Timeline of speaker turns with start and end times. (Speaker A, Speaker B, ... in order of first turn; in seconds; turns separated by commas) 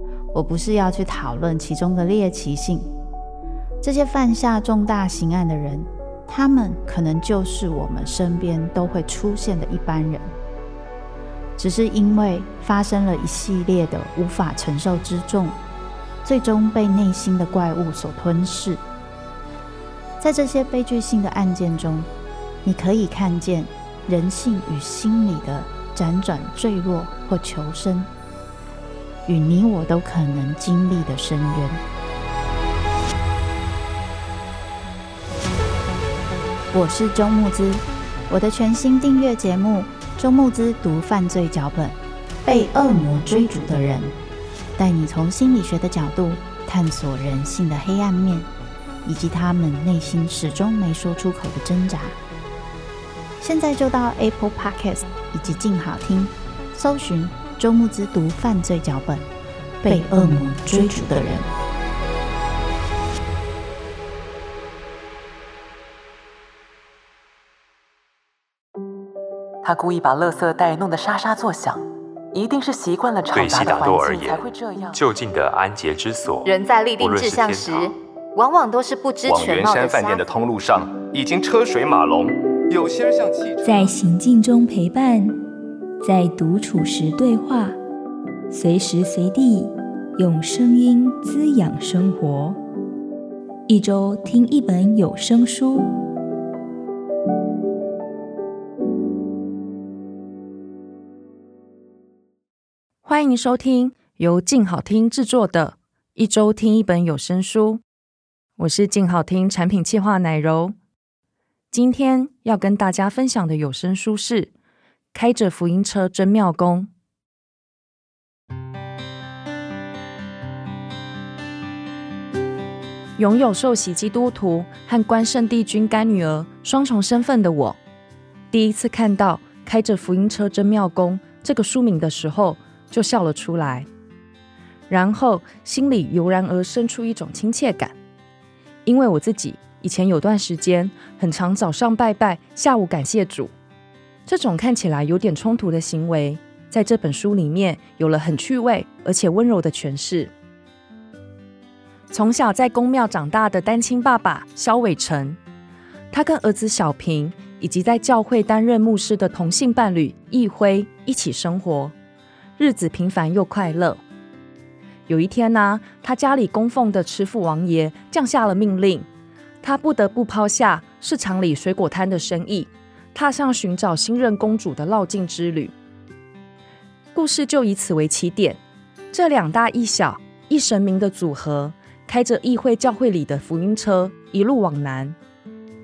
Speaker A: 0.3-2.9, Speaker A: 3.8-10.3, Speaker A: 11.6-15.6, Speaker A: 16.2-18.8, Speaker A: 20.2-22.1, Speaker A: 22.6-28.1, Speaker A: 29.2-31.8, Speaker A: 36.7-44.1, Speaker A: 44.8-48.5, Speaker A: 49.0-52.2, Speaker A: 53.4-59.3, Speaker A: 59.8-61.5, Speaker B: 69.6-75.0, Speaker C: 73.3-74.4, Speaker C: 75.0-76.5, Speaker D: 76.5-77.8, Speaker C: 77.0-77.7, Speaker B: 77.6-77.9, Speaker D: 78.3-80.2, Speaker E: 79.2-83.9, Speaker F: 83.6-85.4, Speaker F: 86.0-87.8, Speaker F: 88.5-92.6, Speaker F: 93.7-95.9, Speaker G: 103.0-107.8, Speaker G: 108.6-110.7, Speaker G: 111.7-114.5, Speaker G: 115.1-116.9, Speaker G: 123.2-127.8, Speaker G: 128.5-133.9, Speaker G: 134.9-137.9, Speaker G: 138.8-143.5, Speaker G: 144.2-150.3, Speaker G: 152.1-155.4, Speaker G: 156.1-161.9, Speaker G: 162.6-164.0, Speaker G: 165.1-169.1, Speaker G: 169.6-175.7, Speaker G: 177.1-178.6, Speaker G: 179.1-185.2